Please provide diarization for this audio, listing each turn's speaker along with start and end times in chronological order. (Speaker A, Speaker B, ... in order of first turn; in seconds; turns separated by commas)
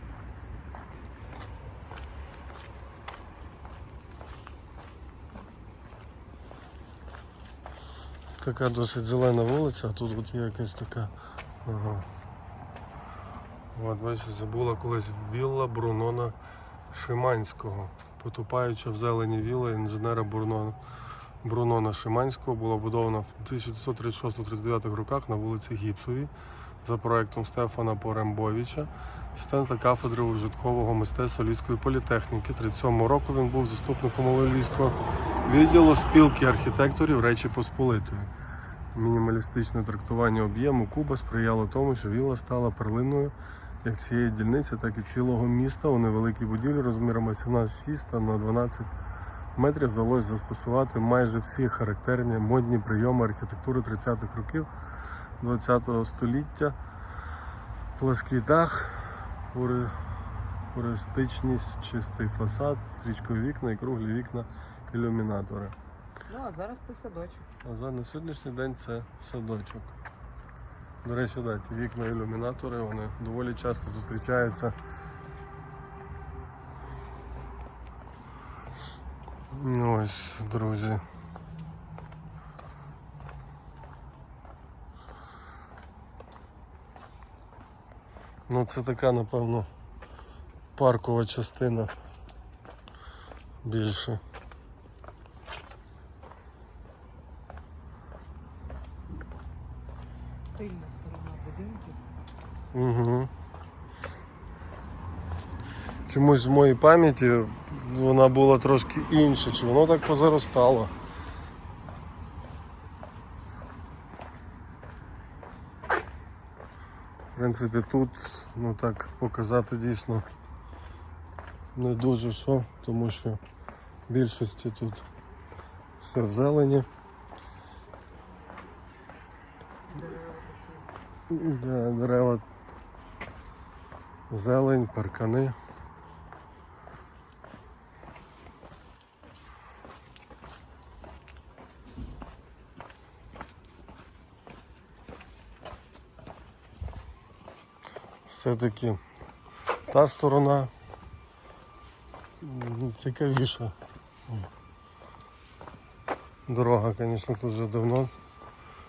Speaker A: 8.4-11.1, Speaker A: 11.6-12.1, Speaker A: 13.7-16.4, Speaker A: 16.9-20.8, Speaker A: 21.4-26.3, Speaker A: 26.8-38.3, Speaker A: 38.9-48.9, Speaker A: 49.5-54.7, Speaker A: 55.4-56.8, Speaker A: 58.0-60.0, Speaker A: 60.7-65.8, Speaker B: 66.3-67.5, Speaker A: 67.6-69.9, Speaker A: 71.0-74.8, Speaker A: 79.5-81.0, Speaker A: 88.5-89.7, Speaker A: 90.8-91.9, Speaker A: 93.6-94.2, Speaker B: 100.5-102.0, Speaker A: 102.7-103.3, Speaker A: 106.1-110.9, Speaker A: 117.3-120.2, Speaker A: 121.8-123.4, Speaker A: 124.1-125.0, Speaker A: 126.0-126.9, Speaker B: 129.9-130.9, Speaker A: 131.3-132.4, Speaker A: 134.3-135.6, Speaker A: 148.3-149.0, Speaker A: 149.9-150.7, Speaker A: 152.4-153.7, Speaker A: 156.5-158.1